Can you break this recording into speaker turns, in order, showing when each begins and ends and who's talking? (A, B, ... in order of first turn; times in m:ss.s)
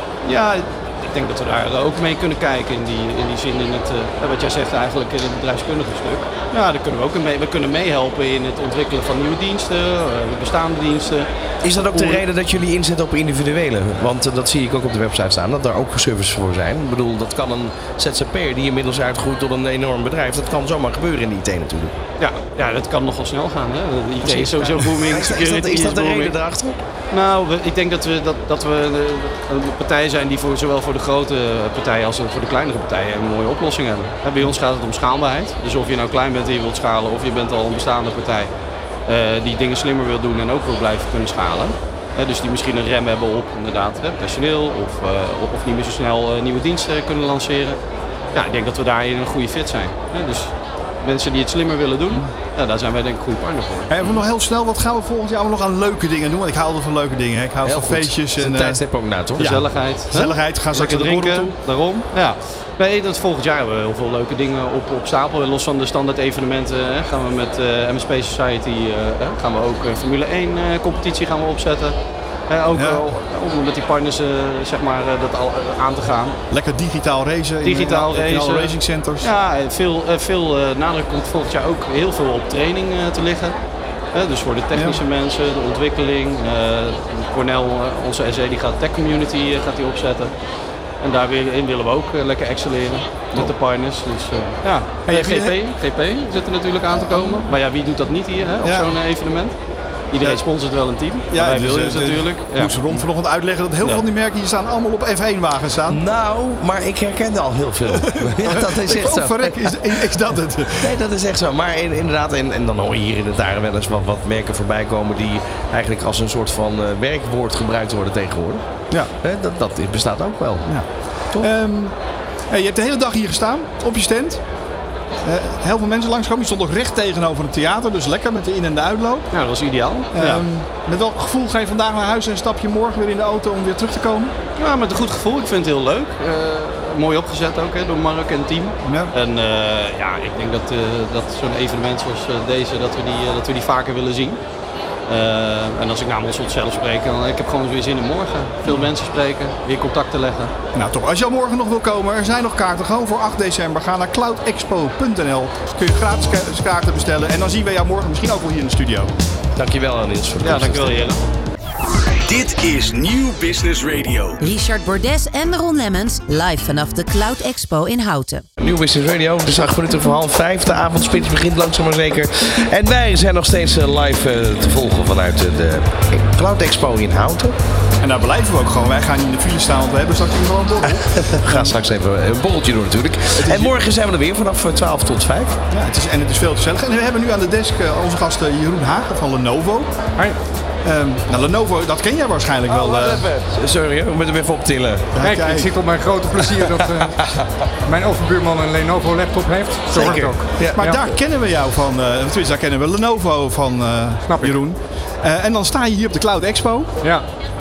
0:00.2-0:11.3 A
0:11.6-0:22.0 B
0:11.9-0:12.2 A
0:22.2-0:26.4 A
0:24.2-0:26.8 B
0:27.1-0:38.5 A
0:39.1-0:47.8 A
0:48.4-0:54.2 A
0:53.9-0:58.8 C
0:57.6-0:59.5 B
0:59.4-1:01.6 C
0:59.4-1:12.0 A
1:12.5-1:16.4 A
1:12.7-1:13.0 C
1:16.5-1:19.3 C
1:17.6-1:23.6 A
1:24.1-1:30.3 A
1:24.7-1:25.0 C
1:31.0-1:39.5 A
1:35.1-1:35.6 C
1:38.6-1:38.9 C
1:40.1-1:43.0 A
1:41.3-1:46.0 C
1:45.9-1:49.7 B
1:48.0-1:51.0 C
1:50.8-1:58.6 B
1:59.2-2:00.7 B
2:00.6-2:02.0 C
2:02.5-2:04.4 C
2:05.2-2:09.3 C
2:09.3-2:10.4 A
2:10.1-2:14.3 C
2:14.6-2:24.4 A
2:18.8-2:19.1 C
2:25.1-2:30.5 A
2:30.8-2:39.1 C
2:39.6-2:41.0 B
2:40.4-2:41.2 A
2:41.8-2:44.4 D
2:44.4-2:48.4 E
2:48.6-2:57.6 B
2:58.0-3:01.8 C
3:00.9-3:05.6 B
3:03.4-3:03.7 C
3:05.7-3:09.9 C
3:10.8-3:13.3 C
3:12.7-3:15.1 B
3:15.1-3:15.7 C
3:15.2-3:17.3 F
3:17.0-3:17.4 B
3:17.8-3:21.0 F
3:19.9-3:20.8 B
3:20.6-3:26.9 C
3:24.3-3:24.6 F